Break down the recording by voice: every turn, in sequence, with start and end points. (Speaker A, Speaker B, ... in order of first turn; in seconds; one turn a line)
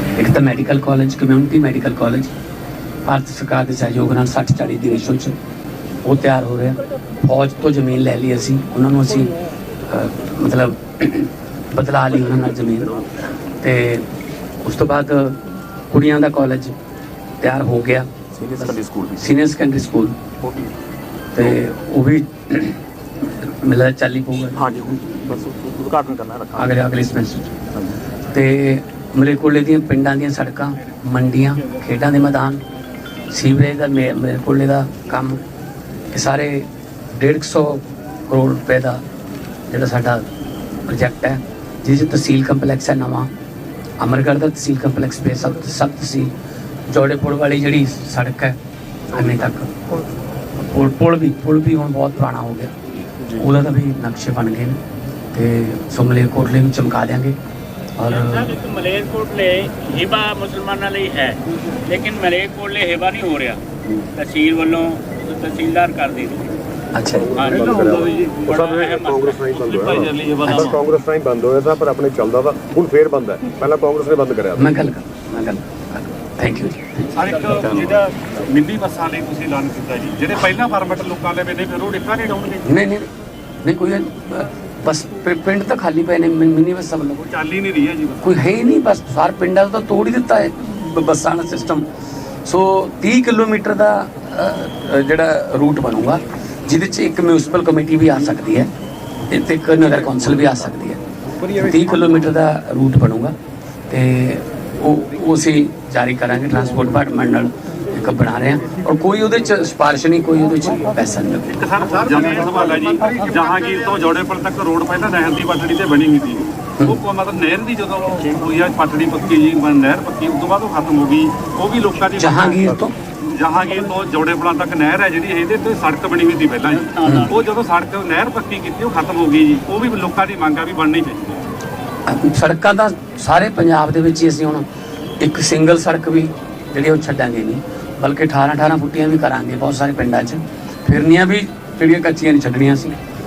Speaker A: 0.2-2.3
Speaker A: 3.0-5.4
Speaker A: 6.0-9.3
Speaker A: 9.9-13.1
Speaker A: 13.6-14.1
Speaker A: 14.6-16.8
Speaker A: 17.4-18.1
Speaker B: 18.4-19.2
Speaker A: 18.6-20.2
Speaker B: 20.4-20.7
Speaker A: 21.4-22.8
Speaker A: 23.4-24.6
Speaker B: 24.6-26.9
Speaker A: 26.6-27.6
Speaker A: 28.3-32.6
Speaker A: 33.3-35.4
Speaker A: 36.1-39.0
Speaker A: 39.7-40.3
Speaker A: 40.9-43.3
Speaker A: 44.0-46.4
Speaker A: 46.9-48.6
Speaker A: 49.1-49.8
Speaker A: 50.6-52.7
Speaker A: 53.3-54.8
Speaker A: 55.3-57.4
Speaker A: 58.0-58.5
Speaker C: 58.1-63.6
Speaker C: 64.2-66.5
Speaker A: 67.0-67.3
Speaker D: 67.1-74.7
Speaker C: 67.4-69.9
Speaker E: 69.9-70.4
Speaker A: 70.4-70.8
Speaker A: 74.6-77.3
Speaker E: 77.2-82.8
Speaker B: 77.6-78.0
Speaker A: 82.6-83.1
Speaker A: 83.6-87.2
Speaker E: 87.2-88.3
Speaker A: 88.2-91.8
Speaker A: 92.5-98.7
Speaker A: 99.3-101.0
Speaker A: 101.5-103.3
Speaker A: 103.9-111.6
Speaker E: 111.5-131.5
Speaker C: 112.1-113.8
Speaker A: 122.2-122.9
Speaker C: 126.7-127.4
Speaker A: 127.0-127.3
Speaker A: 132.1-134.7
Speaker A: 135.2-143.0